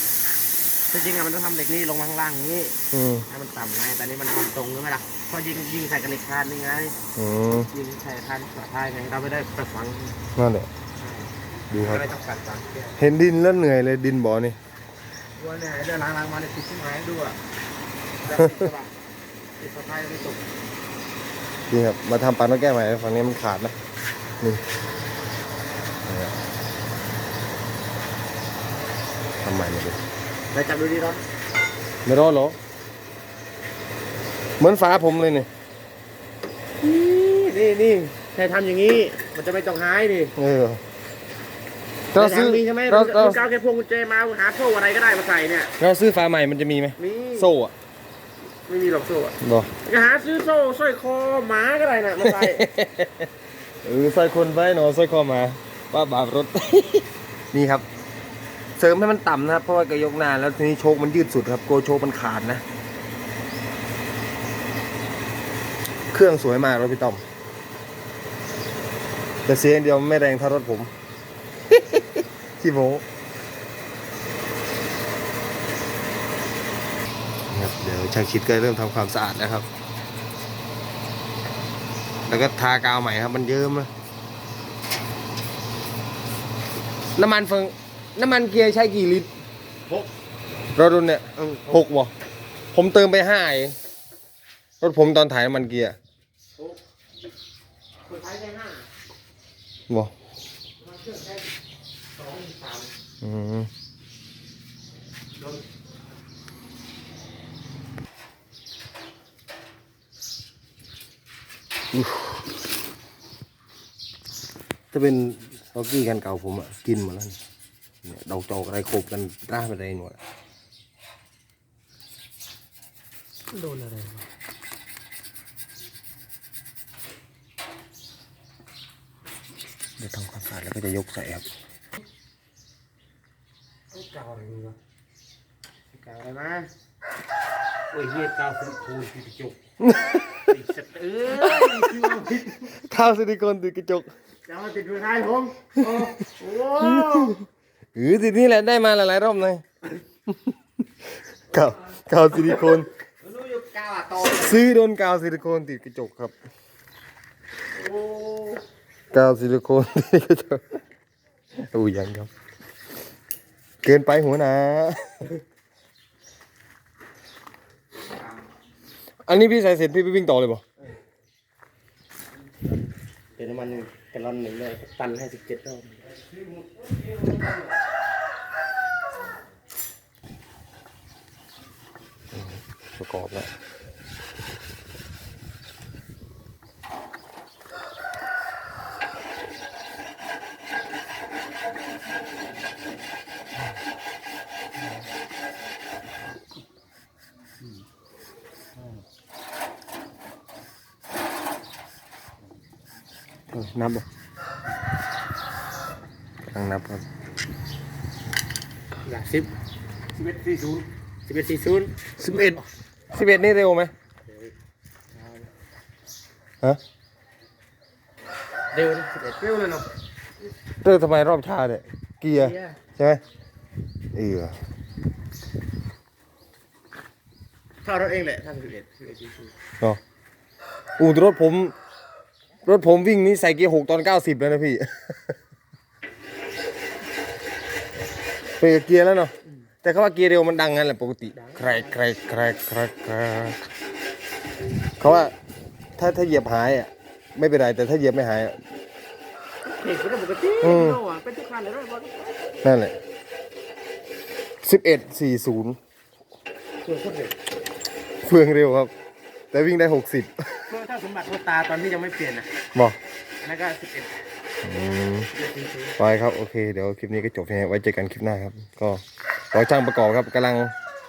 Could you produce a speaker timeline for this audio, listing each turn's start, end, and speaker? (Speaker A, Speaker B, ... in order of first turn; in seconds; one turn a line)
Speaker A: 0.9-2.8
Speaker B: 2.9-3.2
Speaker A: 3.3-7.0
Speaker B: 7.2-7.7
Speaker A: 7.7-10.2
Speaker B: 10.3-10.7
Speaker A: 11.0-13.0
Speaker B: 11.7-12.0
Speaker B: 13.0-14.6
Speaker A: 15.4-17.4
Speaker A: 18.2-18.9
Speaker B: 18.3-18.6
Speaker A: 19.6-20.5
Speaker B: 21.7-23.7
Speaker B: 26.1-26.3
Speaker B: 29.4-30.0
Speaker A: 30.5-31.2
Speaker B: 32.0-32.6
Speaker B: 34.6-35.5
Speaker A: 36.8-40.3
Speaker B: 40.4-40.8
Speaker B: 42.1-43.4
Speaker A: 42.1-45.7
Speaker B: 45.8-47.7
Speaker A: 47.0-47.5
Speaker A: 48.7-52.7
Speaker B: 49.4-49.7
Speaker B: 52.2-53.3
Speaker B: 53.8-57.9
Speaker B: 58.8-62.6
Speaker B: 66.1-67.2
Speaker B: 69.5-70.9
Speaker B: 71.7-73.0
Speaker B: 77.5-79.7
Speaker B: 82.3-83.9
Speaker B: 87.2-89.3
Speaker A: 89.9-90.1
Speaker B: 90.7-92.1
Speaker A: 91.4-91.8
Speaker B: 92.7-93.8
Speaker B: 94.8-96.0
Speaker A: 98.0-98.8
Speaker A: 100.8-101.5
Speaker A: 102.1-102.9
Speaker B: 103.2-103.7
Speaker A: 105.4-105.6
Speaker B: 111.9-112.4
Speaker B: 114.9-117.4
Speaker B: 118.0-120.2
Speaker A: 123.5-124.2
Speaker B: 130.0-131.5
Speaker A: 133.9-134.8
Speaker A: 135.9-136.7
Speaker A: 137.9-139.6
Speaker B: 139.8-140.4
Speaker A: 140.4-142.7
Speaker B: 141.4-141.9
Speaker B: 142.7-144.1
Speaker A: 144.5-147.4
Speaker B: 147.0-147.3
Speaker B: 147.9-149.6
Speaker B: 151.5-152.9
Speaker A: 153.2-154.6
Speaker B: 154.2-156.3
Speaker A: 157.7-158.6
Speaker B: 159.1-160.8
Speaker B: 161.6-162.3
Speaker B: 163.8-165.4
Speaker B: 169.2-170.6
Speaker A: 173.3-176.1
Speaker B: 182.3-183.5
Speaker B: 203.5-204.0
Speaker B: 206.5-207.0
Speaker A: 209.0-209.5
Speaker A: 210.1-212.1
Speaker B: 212.2-213.9
Speaker A: 214.3-214.5
Speaker A: 215.1-215.4
Speaker A: 218.7-219.9
Speaker B: 220.8-223.2
Speaker A: 222.3-222.8
Speaker B: 224.1-224.5
Speaker A: 227.8-229.5
Speaker B: 231.0-231.7
Speaker B: 232.6-235.3
Speaker B: 238.6-239.3
Speaker B: 239.8-243.6
Speaker A: 241.3-242.0
Speaker B: 245.0-245.3
Speaker B: 246.0-248.6
Speaker A: 249.6-252.6
Speaker B: 250.6-251.0
Speaker B: 252.6-252.9
Speaker B: 254.6-255.8
Speaker A: 256.8-257.4
Speaker B: 258.2-258.9
Speaker B: 259.5-260.6
Speaker A: 260.7-262.5
Speaker A: 263.4-264.1
Speaker B: 264.6-265.3
Speaker A: 265.3-265.9
Speaker B: 266.0-269.0
Speaker B: 269.5-270.7